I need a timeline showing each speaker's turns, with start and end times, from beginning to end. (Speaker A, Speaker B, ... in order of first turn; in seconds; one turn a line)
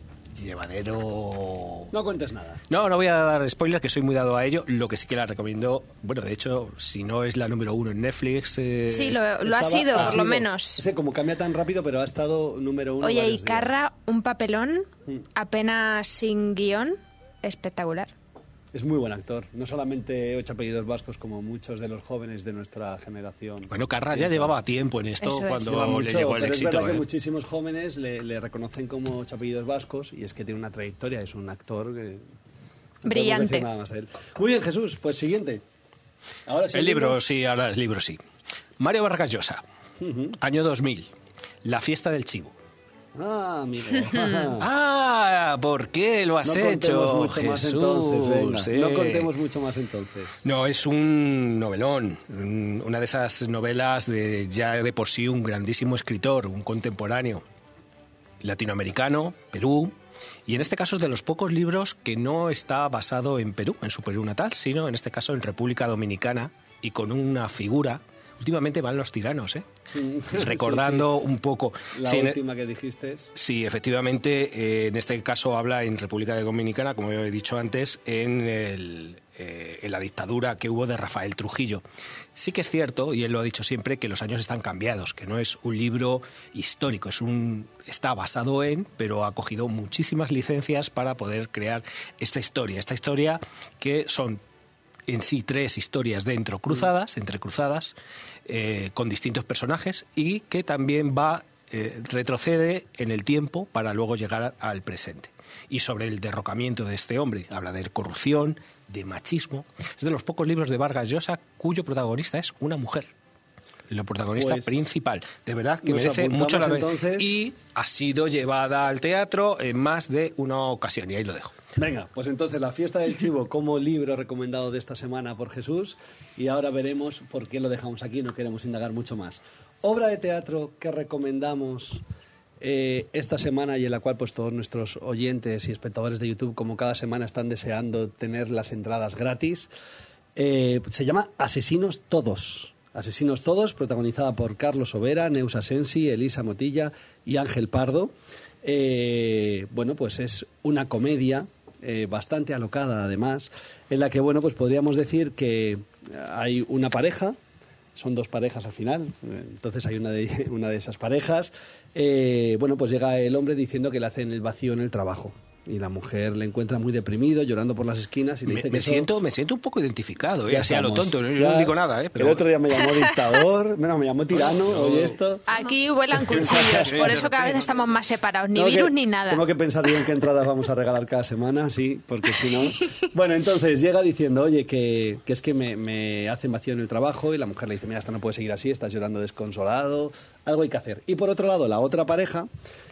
Speaker A: 0.3-1.9
Speaker B: 1.9-2.6
Speaker A: 2.7-9.2
Speaker C: 8.9-10.8
Speaker B: 9.4-13.8
Speaker A: 9.9-10.2
Speaker C: 13.0-18.1
Speaker B: 18.7-24.6
Speaker A: 23.7-27.1
Speaker C: 25.2-25.7
Speaker B: 25.6-32.2
Speaker C: 33.0-33.6
Speaker B: 33.0-35.6
Speaker B: 36.5-37.2
Speaker A: 36.7-38.2
Speaker A: 38.8-39.6
Speaker B: 40.0-40.4
Speaker A: 40.4-41.1
Speaker A: 41.6-42.5
Speaker B: 43.1-44.6
Speaker A: 44.6-49.3
Speaker B: 46.4-50.4
Speaker A: 50.4-57.4
Speaker A: 58.4-59.9
Speaker A: 60.5-69.6
Speaker B: 69.9-71.1
Speaker A: 70.3-72.4
Speaker B: 71.9-73.3
Speaker A: 73.3-81.8
Speaker A: 82.3-94.4
Speaker A: 95.1-97.9
Speaker A: 98.5-113.1
Speaker A: 113.9-121.6
Speaker B: 114.3-114.9
Speaker B: 115.8-117.3
Speaker B: 121.8-132.0
Speaker B: 132.6-139.7
Speaker B: 140.3-157.4
Speaker B: 157.9-169.1
Speaker A: 168.5-172.5
Speaker B: 170.5-175.4
Speaker A: 174.3-175.2
Speaker C: 175.5-179.4
Speaker B: 176.3-177.2
Speaker A: 176.6-177.7
Speaker B: 178.5-192.5